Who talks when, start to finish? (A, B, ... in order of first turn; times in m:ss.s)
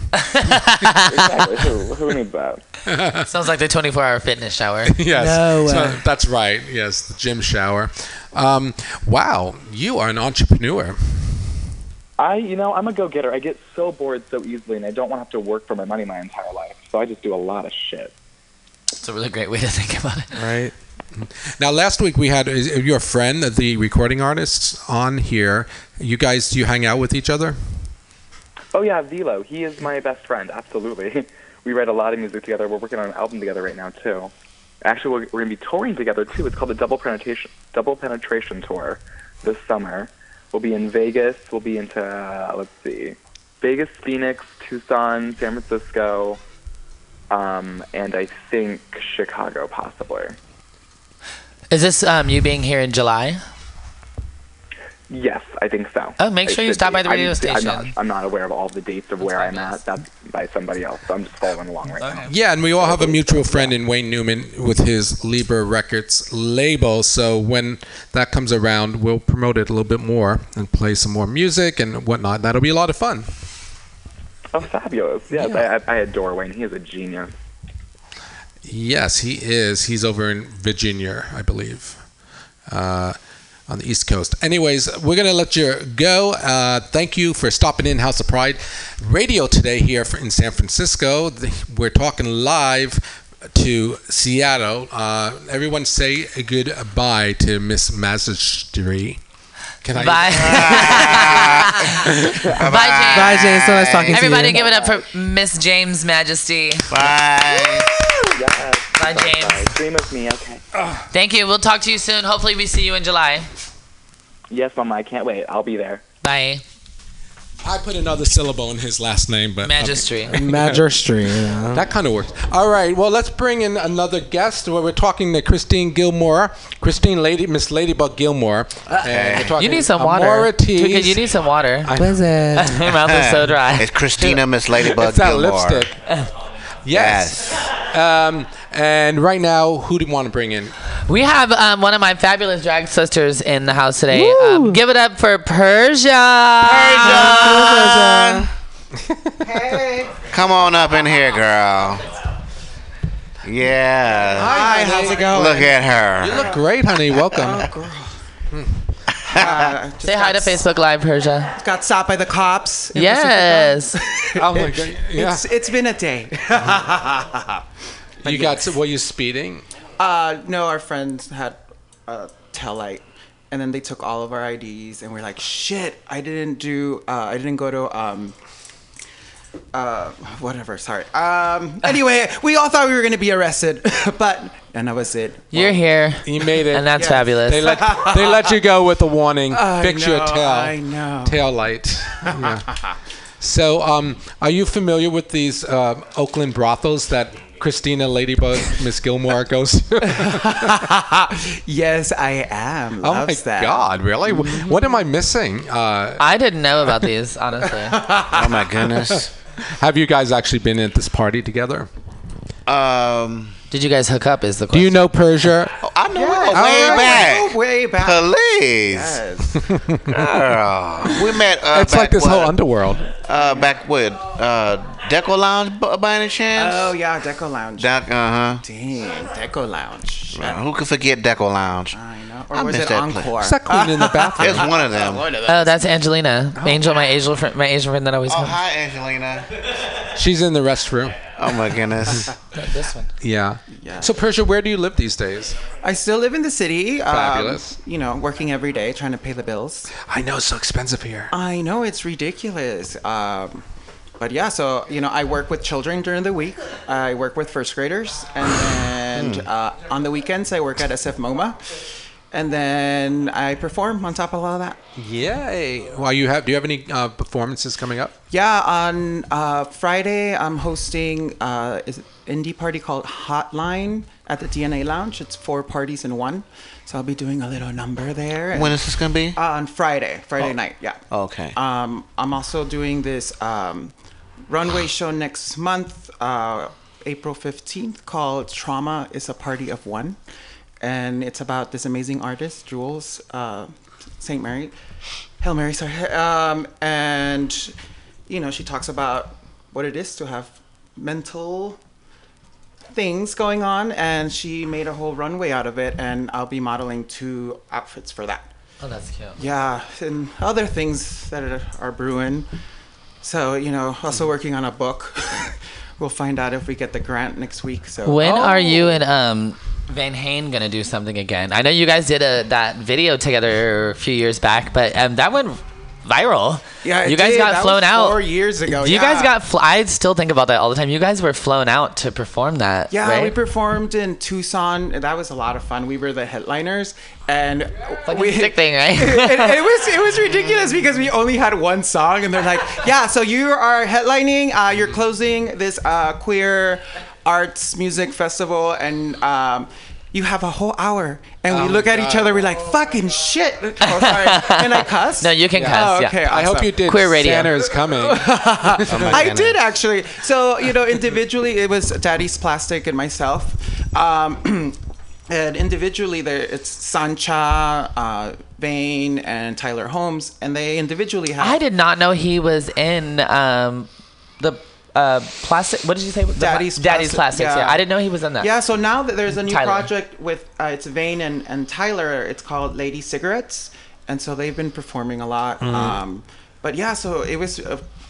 0:00.2-0:01.2 A
0:01.1-0:02.6 B
0:02.9-0:03.3 C
0:03.2-0:04.9 A
0:04.9-0:11.5 C
0:05.1-0:06.0 D
0:12.2-0:18.1 B
0:19.0-0:20.3 A
0:20.3-0:20.7 D
0:21.2-0:27.6 C
0:28.7-0:34.3 B
0:34.8-0:46.4 B
0:47.3-0:50.4 B
0:51.7-0:53.4 A
0:55.1-1:03.7 B
0:56.2-0:57.9 A
0:59.2-0:59.8 A
1:01.9-1:02.3 A
1:02.3-1:13.3 C
1:14.5-1:17.3 B
1:18.6-1:22.0 C
1:22.7-1:23.2 C
1:23.7-1:39.2 C
1:39.8-1:42.2 C
1:39.9-1:43.5 A
1:40.3-1:44.4 E
1:43.1-1:44.6 D
1:44.1-1:47.0 A
1:44.5-1:45.0 B
1:46.9-1:47.9 E
1:48.3-1:50.6 B
1:48.9-1:49.7 A
1:51.1-1:53.5 A
1:54.5-1:56.0 B
1:56.2-1:56.6 A
1:57.6-2:00.8 C
1:59.6-2:00.4 A
2:00.3-2:01.9 D
2:01.7-2:11.2 C
2:09.0-2:09.5 E
2:09.6-2:11.9 A
2:11.8-2:12.3 C
2:12.0-2:12.9 D
2:12.6-2:14.4 A
2:13.0-2:15.9 E
2:14.8-2:16.0 C
2:16.8-2:20.7 C
2:16.9-2:17.5 E
2:21.1-2:27.2 A
2:24.1-2:24.8 D
2:26.6-2:28.5 E
2:27.0-2:28.5 D
2:27.2-2:27.5 F
2:29.4-2:30.2 F
2:30.3-2:32.0 E
2:33.4-2:36.6 E
2:34.3-2:36.6 F
2:34.4-2:35.5 C
2:36.2-2:37.7 C
2:37.3-2:38.2 F
2:38.5-2:38.8 C
2:39.2-2:39.7 E
2:39.3-2:40.6 F
2:40.0-2:41.5 A
2:41.5-2:47.6 F
2:42.9-2:44.0 A
2:44.3-2:45.4 C
2:48.2-2:48.7 F
2:48.2-2:49.6 C
2:50.0-2:58.4 F
2:59.7-3:05.8 F
3:05.5-3:07.7 A
3:06.2-3:12.7 C
3:07.0-3:08.5 F
3:09.5-3:11.4 F
3:12.4-3:12.9 F
3:13.4-3:20.9 C
3:20.0-3:25.0 F
3:23.0-3:26.2 C
3:26.2-3:28.0 A
3:27.9-3:28.6 F
3:28.3-3:29.3 E
3:29.7-3:31.9 C
3:32.7-3:33.6 E
3:33.7-3:35.0 A
3:34.7-3:35.8 C
3:35.8-3:39.2 E
3:36.1-3:38.3 F
3:36.5-3:37.2 C
3:38.9-3:39.6 F
3:39.6-3:40.1 C
3:40.1-3:42.6 E
3:41.7-3:43.1 C
3:43.2-3:46.9 E
3:46.5-3:47.9 F
3:47.8-3:48.6 E
3:48.6-3:50.6 F
3:50.3-3:52.0 E
3:51.9-3:55.6 F
3:52.5-3:53.3 E
3:53.4-3:54.7 C
3:54.4-3:55.4 E
3:55.4-3:58.6 A
3:58.3-3:59.4 E
4:00.1-4:01.2 C
4:01.4-4:02.3 E
4:02.6-4:03.1 A
4:03.2-4:05.6 C
4:03.7-4:04.2 F
4:05.8-4:09.9 F
4:07.1-4:07.7 C
4:10.0-4:11.3 C
4:11.3-4:13.6 F
4:14.2-4:21.7 F
4:19.1-4:19.5 E
4:22.3-4:24.8 F
4:25.0-4:28.1 C
4:28.3-4:38.8 F
4:38.5-4:39.4 E
4:39.3-4:41.0 F
4:41.1-4:41.6 E
4:41.5-4:43.9 F
4:44.5-4:50.2 F
4:50.8-4:54.7 F
4:55.4-4:57.7 F
4:58.3-5:01.8 F
5:02.9-5:08.5 F
5:08.8-5:09.4 A
5:09.4-5:12.5 F
5:13.2-5:18.7 F
5:18.0-5:33.4 A
5:26.8-5:29.3 F
5:32.9-5:56.7 F
5:38.0-5:39.6 A
5:51.5-5:52.3 C
5:53.8-5:56.3 A
5:55.5-5:59.4 C
5:56.8-5:57.5 A
5:57.9-6:04.8 F
5:58.9-5:59.6 E
6:05.3-6:11.6 F
6:11.4-6:13.9 A
6:14.4-6:18.5 A
6:16.4-6:17.8 F
6:18.4-6:27.8 F
6:19.4-6:19.9 A
6:25.6-6:26.0 C